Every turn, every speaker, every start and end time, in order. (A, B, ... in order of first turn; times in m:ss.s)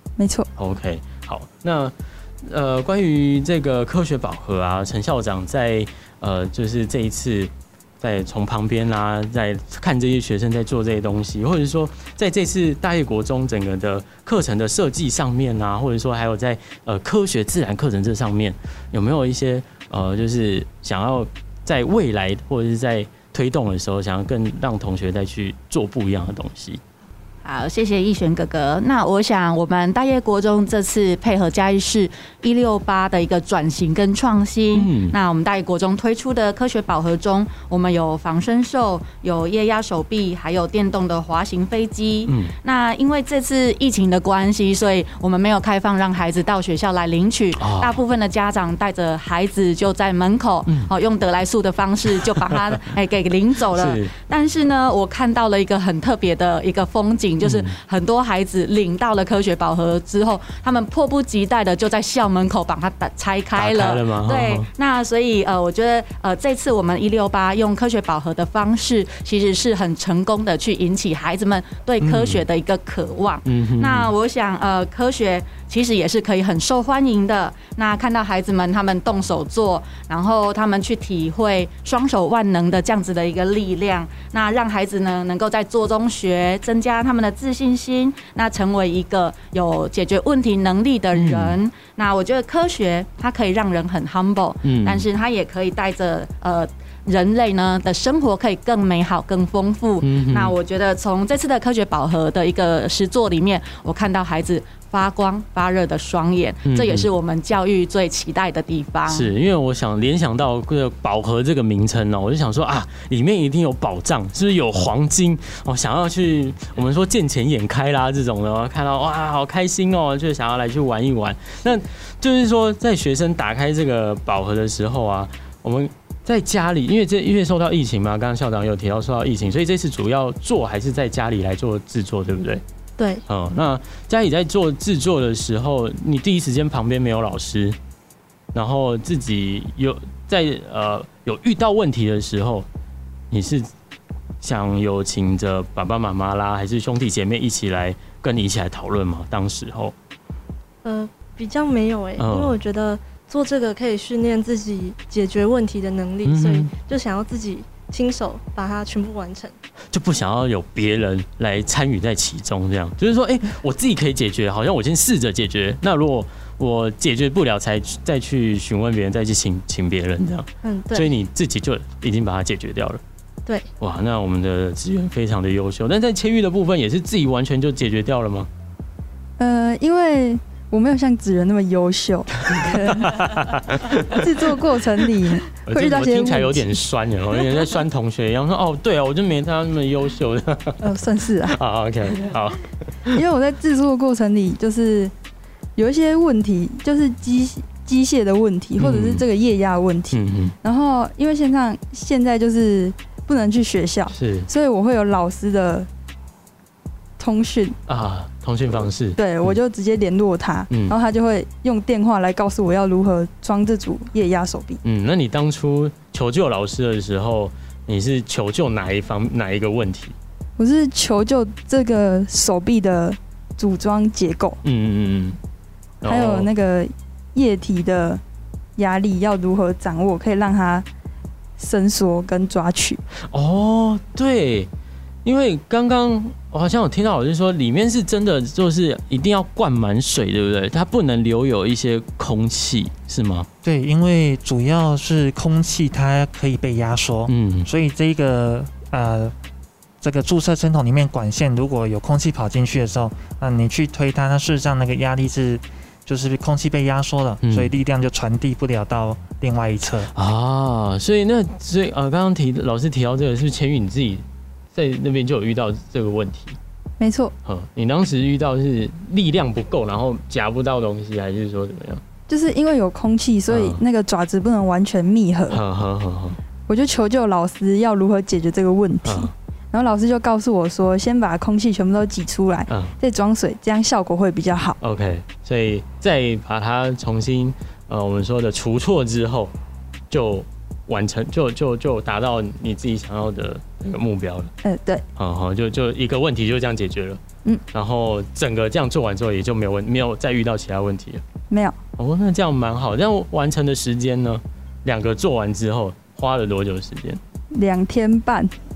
0:00.2-0:00.5 A
0:00.6-0:26.8 B
0:27.4-1:49.3 C
0:34.7-0:35.2 B
0:42.2-0:42.5 B
0:47.6-0:48.0 B
0:52.3-0:52.8 B
0:53.7-0:54.1 B
0:57.4-0:57.7 B
1:03.6-1:04.7 B
1:12.0-1:12.4 B
1:13.4-1:14.1 B
1:31.1-1:31.6 B
1:34.6-1:35.1 B
1:40.0-1:40.5 B
1:46.7-1:47.1 B
1:49.1-2:12.6 B
2:13.0-2:13.2 D
2:13.3-2:17.8 B
2:18.5-2:22.6 B
2:23.3-2:23.7 B
2:24.4-2:29.9 B
2:30.8-2:39.5 D
2:32.2-2:32.6 B
2:36.2-2:36.7 B
2:39.9-2:53.0 B
2:50.6-2:51.1 D
2:53.8-2:58.5 B
2:59.4-3:03.2 A
3:02.4-3:04.6 B
3:04.1-3:06.7 A
3:05.5-3:10.8 B
3:10.8-3:11.6 A
3:11.5-3:13.2 B
3:13.1-3:15.1 A
3:15.8-3:25.9 A
3:18.8-3:19.2 B
3:20.1-3:20.5 B
3:24.1-3:24.5 B
3:27.2-3:27.8 A
3:27.9-3:29.6 B
3:29.2-3:34.8 A
3:34.8-3:40.1 B
3:40.6-3:44.6 A
3:44.6-3:45.4 B
3:46.0-3:46.5 B
3:46.0-3:48.2 A
3:48.8-3:50.8 A
3:51.6-3:53.0 A
3:53.3-3:54.7 B
3:55.2-4:03.5 B
4:03.6-4:09.3 E
4:07.3-4:07.7 B
4:10.0-4:20.1 E
4:17.4-4:17.7 B
4:20.1-4:24.2 B
4:24.7-4:26.6 B
4:27.0-4:27.3 A
4:27.4-4:32.0 B
4:32.3-4:35.6 A
4:33.5-4:33.8 B
4:35.5-4:36.4 B
4:36.7-4:44.8 A
4:39.0-4:39.3 B
4:42.7-4:42.9 B
4:44.8-4:49.5 B
4:50.1-4:54.5 B
4:54.6-4:55.0 A
4:55.2-4:57.2 B
4:57.7-5:01.2 B
5:01.5-5:01.8 A
5:02.0-5:07.2 B
5:07.5-5:08.5 A